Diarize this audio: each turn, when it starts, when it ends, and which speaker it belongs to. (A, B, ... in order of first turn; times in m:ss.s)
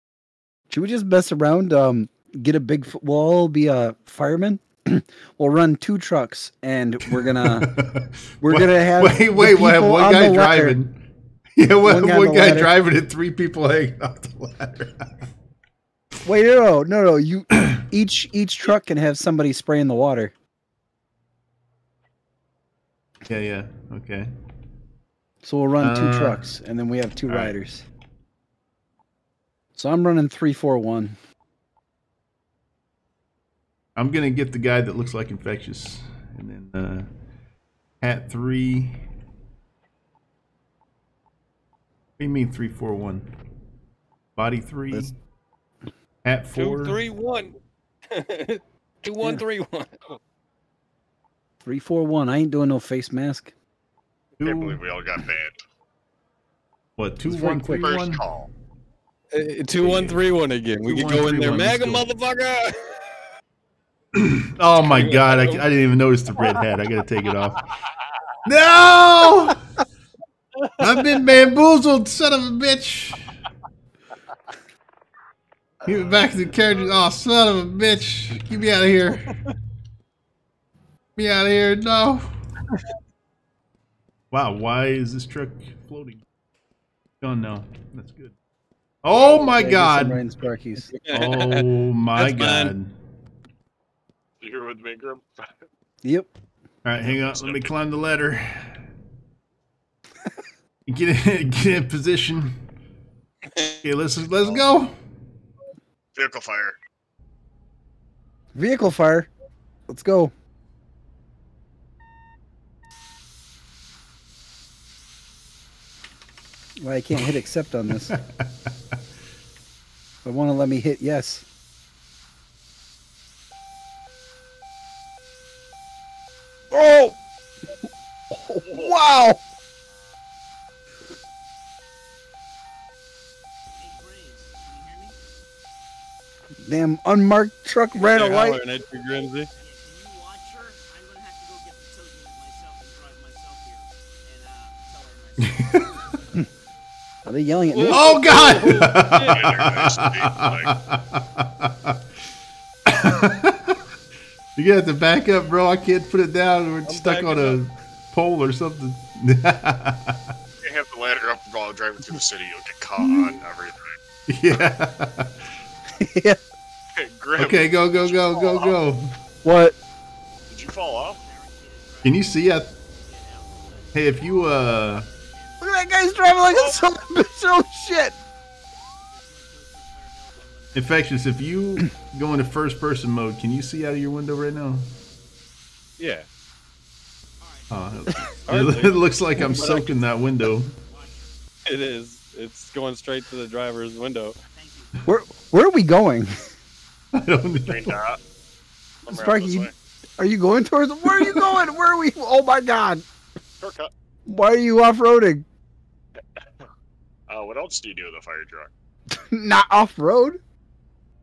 0:00.7-0:07.8 A
0:07.1-0:11.0 B
0:08.4-0:10.8 A
0:11.6-0:15.1 B
0:11.8-0:12.7 A
0:16.2-0:20.3 A
0:23.2-0:24.3 B
0:25.4-0:27.8 A
0:25.8-0:26.4 B
0:27.3-0:27.6 B
0:29.8-0:31.2 A
0:34.0-0:37.1 B
0:38.0-0:39.0 B
0:42.2-0:43.3 B
0:44.4-0:45.2 B
0:46.2-0:47.0 B
0:46.6-0:47.6 C
0:48.1-0:50.0 C
0:51.6-0:53.5 A
0:54.4-0:54.8 B
0:54.4-0:55.6 D
0:57.0-0:58.2 B
0:57.2-0:57.9 A
0:57.8-0:58.5 D
0:59.3-1:03.0 C
0:59.8-1:00.2 B
1:00.8-1:02.1 B
1:04.1-1:07.6 B
1:04.8-1:05.6 C
1:08.4-1:09.6 B
1:10.6-1:10.9 C
1:10.8-1:13.3 B
1:15.8-1:19.4 B
1:21.2-1:22.3 B
1:24.3-1:26.2 B
1:27.2-1:28.3 B
1:29.0-1:30.2 B
1:29.1-1:30.9 A
1:30.9-1:32.7 C
1:31.1-1:32.9 B
1:34.4-1:35.5 D
1:36.0-1:36.3 A
1:36.8-1:38.7 B
1:37.0-1:37.7 D
1:40.9-1:42.6 B
1:43.5-1:43.8 C
1:43.8-1:45.0 B
1:46.2-1:46.8 D
1:48.5-1:49.3 A
1:49.9-1:50.3 A
1:56.8-1:58.1 A
1:58.1-1:58.7 B
2:00.2-2:01.4 A
2:06.7-2:07.2 A
2:08.3-2:09.4 A
2:13.8-2:15.1 E
2:16.6-2:18.6 A
2:18.0-2:19.5 C
2:19.6-2:26.4 E
2:25.4-2:25.8 B
2:27.2-2:28.3 A
2:27.7-2:29.6 C
2:27.9-2:32.0 B
2:29.2-2:30.7 D
2:32.8-2:33.8 B
2:34.6-2:40.3 B
2:36.8-2:37.6 C
2:40.6-2:43.9 D
2:44.3-2:45.4 B
2:46.0-2:46.4 A
2:47.0-2:48.8 D
2:47.4-2:49.1 B
2:49.4-2:49.7 A
2:50.5-2:51.2 D
2:51.2-2:56.8 E
2:52.0-2:52.7 B
2:53.9-2:55.1 B
2:55.6-2:58.1 A
2:59.0-3:01.9 E
3:00.7-3:04.9 B
3:06.0-3:06.3 C
3:07.4-3:09.9 E
3:07.7-3:10.8 B
3:08.5-3:09.9 C
3:10.8-3:11.3 E
3:11.7-3:14.4 C
3:14.5-3:15.0 E
3:15.1-3:16.5 A
3:17.1-3:18.0 B
3:17.7-3:18.2 D
3:19.1-3:19.7 D
3:19.1-3:23.0 A
3:23.6-3:23.9 D
3:24.3-3:25.4 A
3:27.3-3:28.7 D
3:29.1-3:30.4 A